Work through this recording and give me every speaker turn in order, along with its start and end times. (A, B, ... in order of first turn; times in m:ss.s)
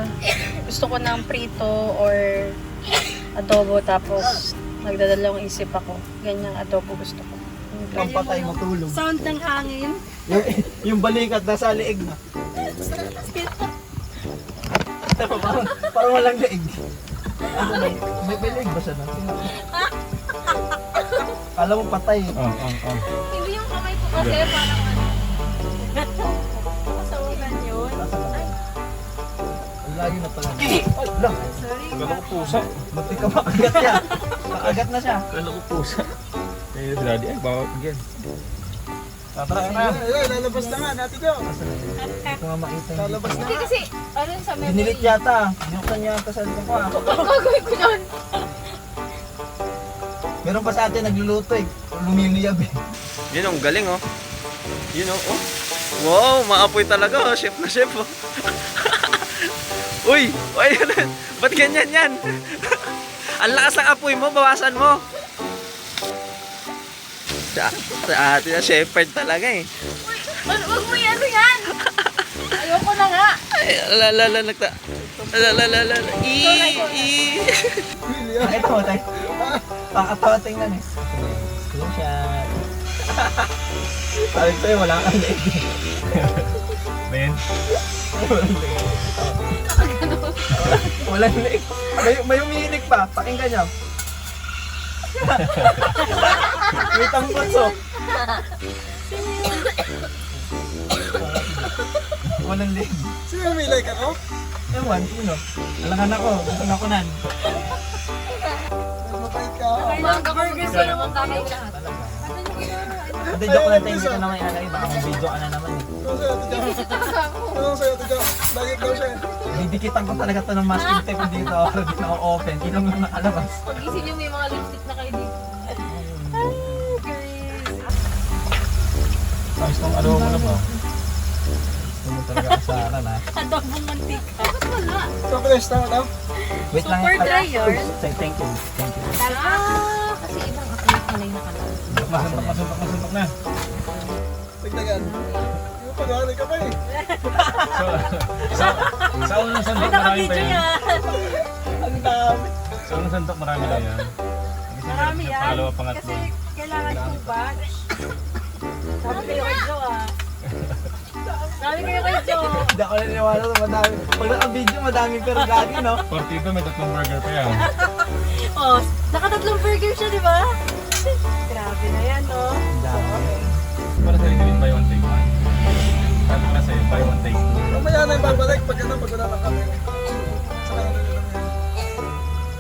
0:00.7-0:02.4 A
0:03.4-0:10.0 A
0:07.9-0:09.0 B
0:10.3-0:12.2 B
0:12.7-0:13.7 C
0:15.1-0:16.8 B
0:17.5-0:19.5 B
0:17.6-0:17.9 C
0:21.0-0:21.4 C
0:21.6-0:22.4 B
0:22.4-0:23.0 D
0:23.1-0:25.2 C
0:24.2-0:24.5 D
0:25.8-0:28.6 C
0:27.1-0:27.9 A
0:27.9-0:28.6 B
0:29.9-0:31.5 B
0:31.4-0:32.6 C
0:32.0-0:33.4 D
0:32.9-0:35.2 B
0:35.3-0:36.1 D
0:36.7-0:38.0 D
0:39.4-0:40.0 D
0:39.6-0:40.0 B
0:39.8-0:41.4 E
0:40.5-0:40.8 C
0:41.5-0:43.7 B
0:42.0-0:42.4 C
0:43.0-0:43.7 E
0:43.4-0:45.2 C
0:44.6-0:47.1 B
0:46.9-0:48.5 C
0:50.4-0:52.7 B
0:53.3-0:54.0 F
0:54.9-0:55.4 F
0:56.0-0:58.1 F
0:58.8-0:59.3 F
1:00.0-1:02.8 F
1:03.4-1:05.0 F
1:07.5-1:09.7 F
1:10.0-1:11.7 C
1:12.6-1:13.4 C
1:13.6-1:14.8 F
1:15.1-1:15.4 B
1:15.3-1:17.7 F
1:16.4-1:17.1 C
1:18.1-1:18.8 E
1:18.4-1:19.1 B
1:19.9-1:22.5 B
1:23.1-1:23.5 B
1:24.2-1:25.7 B
1:26.2-1:26.5 D
1:27.1-1:27.4 D
1:28.1-1:29.4 B
1:29.7-1:30.6 C
1:30.5-1:33.7 B
1:35.2-1:37.8 B
1:36.6-1:37.5 C
1:38.1-1:38.4 C
1:39.1-1:39.9 C
1:41.1-1:41.7 B
1:42.3-1:43.1 B
1:43.3-1:44.2 E
1:44.7-1:47.2 B
1:49.0-1:50.3 E
1:49.8-1:53.4 C
1:50.2-1:51.5 A
1:50.7-1:51.2 D
1:50.8-1:52.4 B
1:53.3-1:55.9 B
1:53.3-1:54.3 E
1:56.0-1:59.4 E
1:56.5-1:57.7 C
1:59.5-2:03.5 B
2:00.7-2:01.5 C
2:03.6-2:05.8 C
2:05.9-2:07.0 B
2:06.8-2:07.9 C
2:09.6-2:10.7 D
2:12.0-2:13.2 B
2:13.4-2:15.1 C
2:15.3-2:16.1 E
2:16.7-2:19.2 B
2:16.8-2:17.9 A
2:17.1-2:17.8 C
2:19.2-2:21.9 C
2:19.2-2:19.9 A
2:21.9-2:22.6 B
2:21.9-2:23.3 D
2:24.6-2:25.2 E
2:25.0-2:25.5 C
2:25.8-2:26.8 E
2:27.4-2:27.9 B
2:27.7-2:30.7 D
2:29.7-2:31.1 A
2:31.0-2:32.5 B
2:32.9-2:34.1 D
2:34.7-2:36.3 D
2:34.9-2:37.8 C
2:35.2-2:35.7 A
2:36.6-2:37.6 A
2:36.9-2:37.4 D
2:39.0-2:39.8 C
2:39.0-2:40.1 A
2:41.6-2:42.7 C
2:41.6-2:42.7 A
2:42.6-2:46.0 B
2:46.1-2:47.6 D
2:48.6-2:50.4 A
2:51.5-2:53.3 A
2:52.7-2:53.6 B
2:54.0-2:55.3 D
2:56.3-2:57.7 D
2:57.7-3:01.5 E